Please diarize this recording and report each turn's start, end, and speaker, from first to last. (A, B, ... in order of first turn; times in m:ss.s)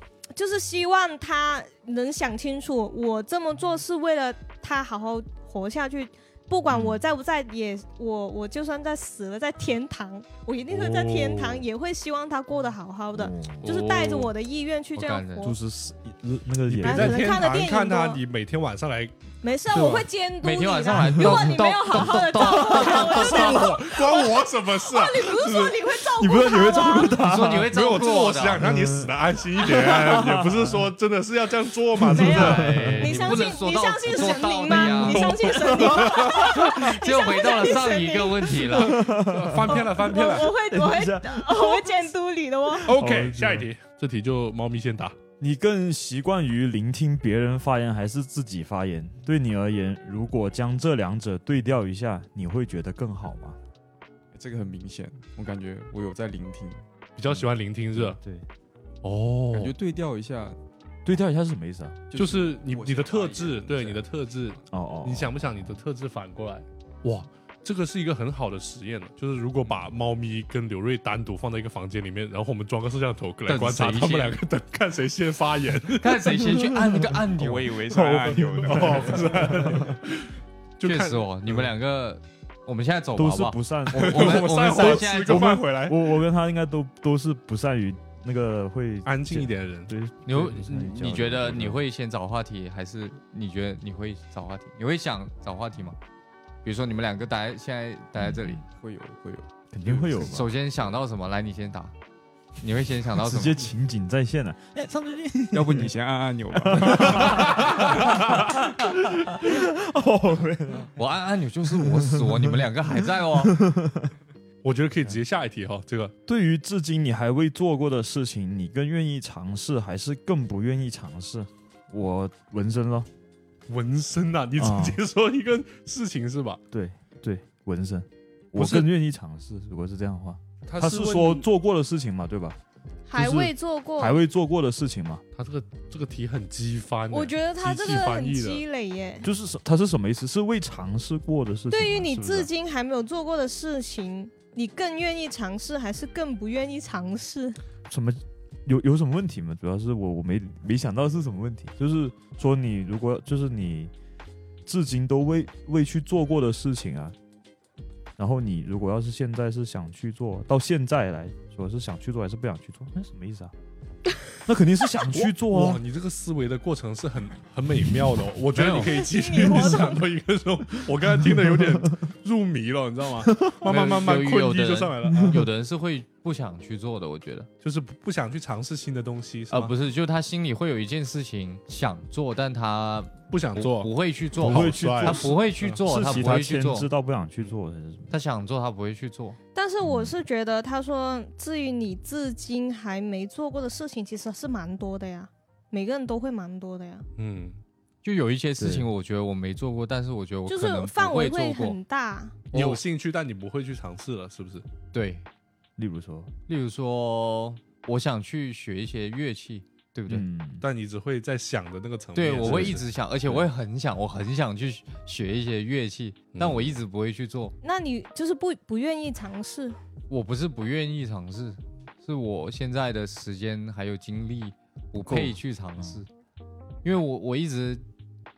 0:00.3-0:15.6 A
0:06.7-0:07.0 B
0:10.7-0:11.6 C
0:13.1-0:13.6 B
0:13.4-0:14.3 D
0:14.9-0:15.5 D
0:15.4-0:17.2 B
0:16.7-0:19.1 C
0:16.8-0:18.2 A
0:19.4-0:27.1 A
0:19.7-0:20.0 C
0:20.4-0:23.6 D
0:21.0-0:21.5 B
0:22.8-0:25.8 C
0:26.2-0:27.7 B
0:27.1-0:28.6 D
0:27.7-0:33.4 C
0:28.6-0:30.8 B
0:32.0-0:33.2 B
0:32.1-0:39.0 A
0:32.3-0:35.6 D
0:34.7-0:36.6 B
0:35.1-0:36.6 C
0:36.3-0:39.0 D
0:38.7-0:41.9 B
0:39.1-0:40.5 C
0:39.6-0:42.9 A
0:42.8-0:43.7 B
0:42.8-0:45.1 C
0:45.4-0:53.6 B
0:54.3-0:56.8 E
0:57.2-0:58.2 C
0:58.0-0:58.5 B
0:59.0-0:59.7 C
0:59.5-1:00.6 E
1:01.0-1:02.0 B
1:02.1-1:04.0 E
1:02.2-1:16.4 C
1:04.7-1:05.6 B
1:13.5-1:14.4 D
1:16.0-1:17.8 D
1:17.4-1:19.8 E
1:17.9-1:21.7 C
1:20.8-1:25.6 D
1:23.2-1:31.8 B
1:23.9-1:26.1 C
1:29.0-1:29.9 C
1:30.2-1:36.0 D
1:36.6-1:38.6 D
1:38.2-1:38.6 B
1:38.6-1:39.5 E
1:39.7-1:40.5 B
1:40.2-1:41.9 D
1:42.6-1:43.7 D
1:43.1-1:45.9 B
1:45.5-1:47.8 E
1:46.7-1:50.9 B
1:47.3-1:47.6 C
1:51.0-1:53.6 D
1:51.7-1:54.1 B
1:54.6-1:56.1 C
1:56.2-2:03.1 B
2:03.7-2:06.6 C
2:04.6-2:05.0 B
2:06.7-2:12.6 B
2:08.5-2:08.9 C
2:10.7-2:11.5 C
2:13.1-2:14.2 A
2:13.2-2:15.2 B
2:15.4-2:18.6 C
2:17.1-2:19.3 A
2:19.2-2:22.5 B
2:21.7-2:27.6 A
2:27.9-2:33.9 B
2:34.6-2:37.2 B
2:38.2-2:43.5 B
2:44.4-2:45.8 B
2:45.1-2:55.4 C
2:48.5-2:48.9 D
2:48.8-2:50.0 A
2:53.6-2:57.5 D
2:55.1-2:55.4 B
2:57.6-2:59.7 C
2:59.5-3:06.9 D
3:03.3-3:05.8 C
3:04.4-3:08.1 B
3:08.1-3:09.4 D
3:09.5-3:17.0 A
3:09.8-3:10.1 B
3:17.2-3:17.6 C
3:18.0-3:21.8 D
3:18.6-3:18.9 B
3:20.5-3:22.4 A
3:22.5-3:22.8 D
3:22.5-3:24.6 C
3:24.9-3:25.2 D
3:25.8-3:26.3 B
3:26.5-3:30.2 D
3:30.1-3:30.6 B
3:30.6-3:33.4 C
3:32.1-3:37.5 D
3:32.4-3:32.8 B
3:36.3-3:36.7 C
3:37.6-3:39.8 A
3:40.1-3:46.1 D
3:45.0-3:46.0 B
3:46.8-3:47.8 D